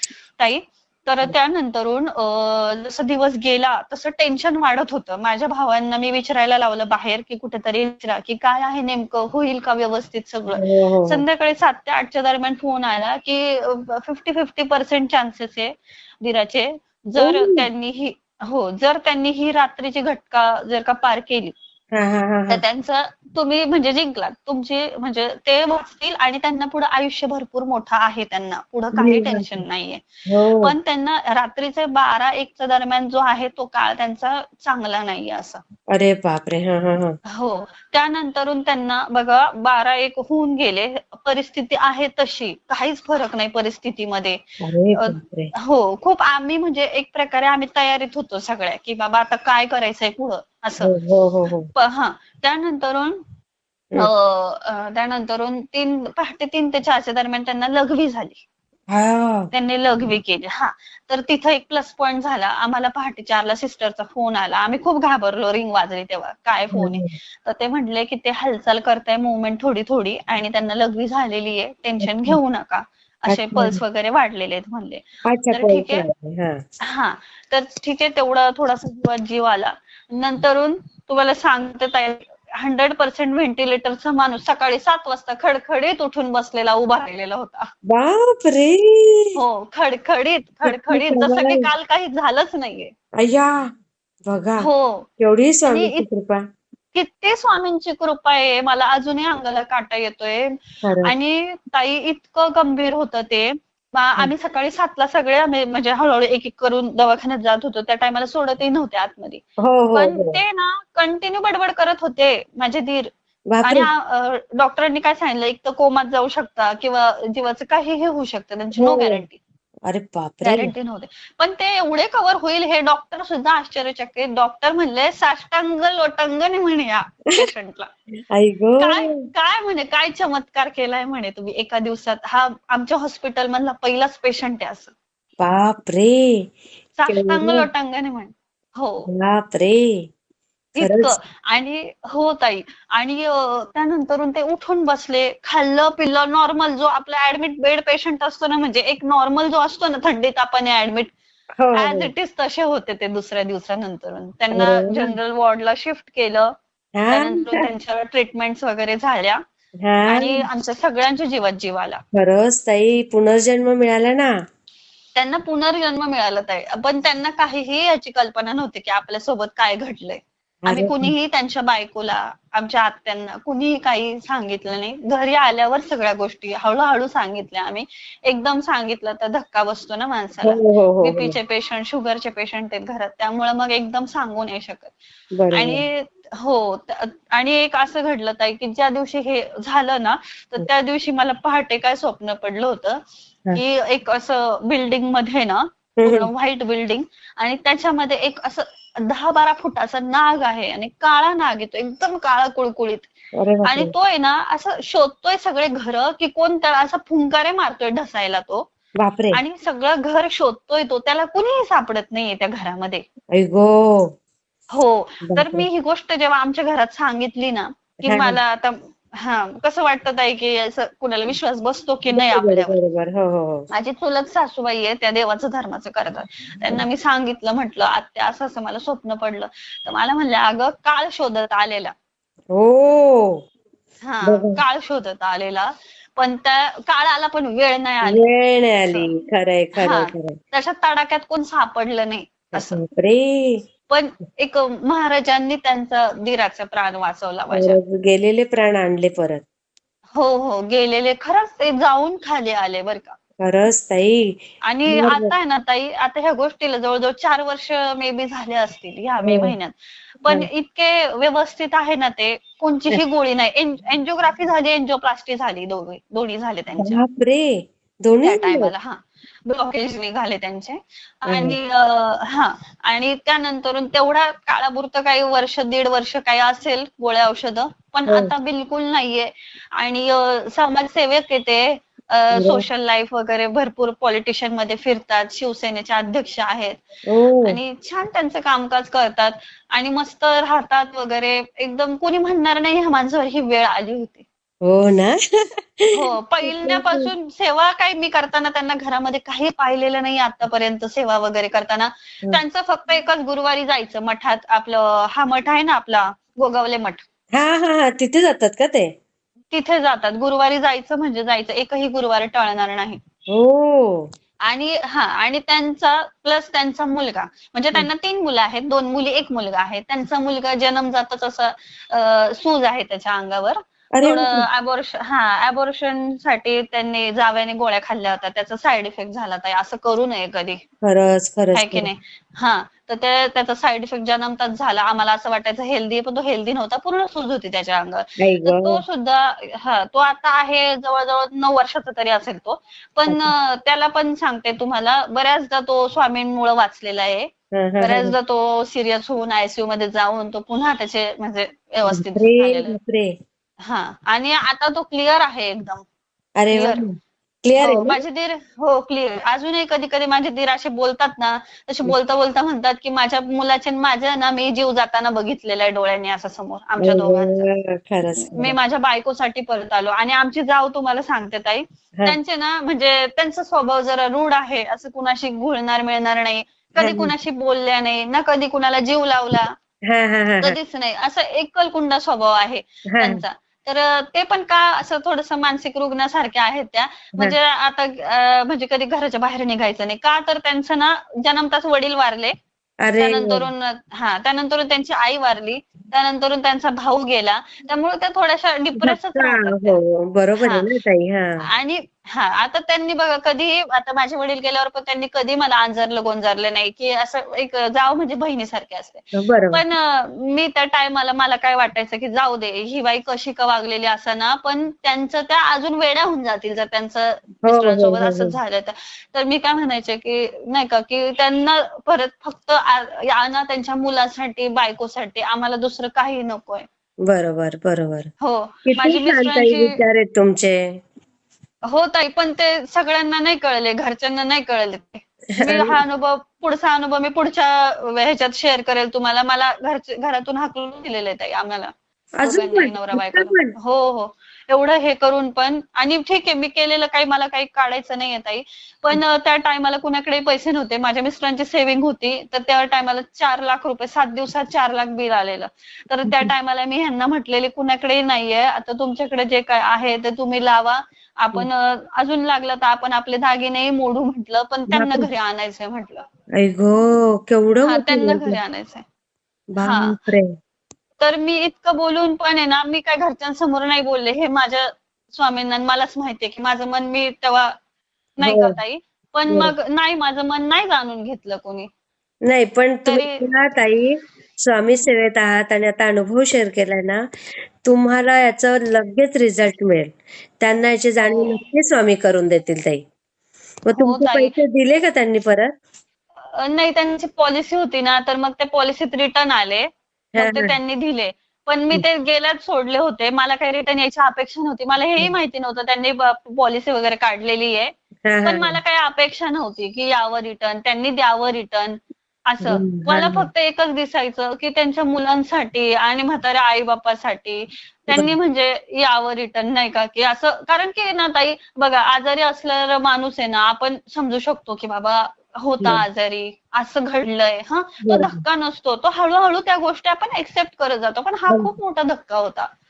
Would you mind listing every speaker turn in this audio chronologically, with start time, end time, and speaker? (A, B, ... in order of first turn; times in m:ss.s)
0:00.4-0:21.5 A
0:10.5-0:11.2 B
0:17.2-0:17.6 B
0:21.9-0:22.6 B
0:22.5-0:30.0 A
0:29.0-0:29.6 B
0:30.3-0:30.7 B
0:30.6-0:35.6 A
0:35.9-0:37.2 B
0:37.3-0:44.4 A
0:44.6-0:45.5 B
0:45.0-0:50.9 A
0:50.8-0:51.7 B
0:51.7-0:53.2 A
0:54.0-0:58.4 A
0:58.9-0:59.5 B
0:59.5-1:16.0 A
1:06.7-1:07.1 B
1:12.0-1:12.4 B
1:13.3-1:13.8 B
1:15.3-1:16.6 B
1:16.8-1:27.7 A
1:27.9-1:29.3 B
1:29.4-1:32.9 A
1:30.6-1:31.7 B
1:33.2-1:33.6 B
1:34.2-1:34.7 B
1:34.6-1:35.1 A
1:35.2-1:36.4 B
1:35.7-1:36.0 A
1:36.9-1:40.5 A
1:40.8-1:41.1 B
1:41.0-1:49.4 A
1:49.6-1:50.4 B
1:49.9-1:53.1 A
1:53.5-1:53.9 B
1:53.6-1:59.4 A
1:58.8-1:59.2 B
1:59.9-2:00.7 B
2:00.4-2:07.9 A
2:08.3-2:09.1 B
2:08.8-2:14.9 A
2:15.4-2:16.5 B
2:17.0-2:19.1 A
2:17.1-2:17.6 B
2:19.1-2:20.1 B
2:20.8-2:31.1 A
2:20.8-2:21.2 B
2:31.6-2:32.1 B
2:31.7-2:36.5 A
2:34.5-2:35.2 B
2:37.0-2:37.5 B
2:37.1-2:39.4 A
2:39.8-2:40.4 B
2:40.1-2:42.0 A
2:42.1-2:44.3 B
2:45.1-3:04.9 A
2:50.7-2:51.1 B
3:00.4-3:01.4 B
3:05.4-3:05.8 B
3:05.5-3:13.0 A
3:13.5-3:23.1 A
3:16.0-3:16.3 B
3:23.4-3:23.9 B
3:23.7-3:28.6 A
3:29.0-3:29.4 B
3:29.3-3:33.0 A
3:33.3-3:34.1 B
3:34.7-3:42.7 A
3:35.3-3:35.7 B
3:38.0-3:38.4 B
3:42.1-3:43.7 B
3:43.7-3:51.9 A
3:52.5-3:53.4 B
3:54.0-3:58.2 A
3:54.2-3:54.6 B
3:58.0-4:00.4 B
3:59.8-4:02.8 A
4:02.6-4:03.6 B
4:03.9-4:07.8 A
4:07.5-4:09.4 B
4:10.1-4:13.2 A
4:13.4-4:14.3 B
4:14.6-4:27.0 A
4:14.9-4:15.3 B
4:19.2-4:19.5 B
4:26.8-4:28.7 B
4:28.2-4:46.8 A
4:31.3-4:31.6 B
4:42.4-4:42.6 B
4:47.1-4:47.6 B
4:47.4-4:54.2 A
4:54.6-4:55.2 B
4:56.0-5:07.0 A
4:56.4-4:57.1 B
5:07.3-5:08.9 B
5:09.5-5:13.0 A
5:13.3-5:14.1 B
5:14.4-5:30.6 A
5:23.9-5:24.4 B
5:30.8-5:31.9 B
5:31.5-5:47.3 A
5:38.2-5:38.8 B
5:43.1-5:43.3 B
5:47.5-5:48.1 B
5:47.8-5:52.7 A
5:51.9-5:53.1 B
5:53.6-5:55.8 A
5:56.4-5:58.0 B
5:56.5-5:56.8 A
5:57.6-6:07.4 A
6:06.8-6:08.6 B
6:08.2-6:19.5 A
6:16.8-6:17.1 B
6:19.9-6:20.6 B
6:20.4-6:32.3 A
6:22.9-6:23.2 B
6:32.8-6:33.5 B
6:33.0-6:39.8 A
6:38.8-6:41.4 B
6:40.4-6:40.6 A
6:41.5-7:06.6 A
6:49.2-6:49.6 B
6:57.4-6:58.4 B
7:07.1-7:08.1 B
7:08.2-7:09.8 A
7:08.6-7:10.6 B
7:11.7-7:21.7 A
7:15.4-7:15.7 B
7:22.2-7:23.5 B
7:22.2-7:46.0 A
7:44.7-7:45.1 B
7:46.4-7:48.4 B
7:47.6-7:48.8 A
7:49.5-7:50.3 B
7:49.6-7:50.0 A
7:51.0-7:57.5 A
7:58.2-8:01.7 A
7:58.2-7:58.6 B
7:59.3-7:59.5 B
8:02.2-8:07.0 B
8:02.8-8:03.2 A
8:07.6-8:12.8 B
8:11.0-8:11.4 A
8:13.7-8:15.5 B
8:13.8-8:14.3 A
8:16.3-8:27.7 A
8:20.2-8:20.5 B
8:28.1-8:28.6 B
8:28.2-8:31.8 A
8:32.3-8:52.5 A
8:32.4-8:33.3 B
8:47.8-8:48.2 B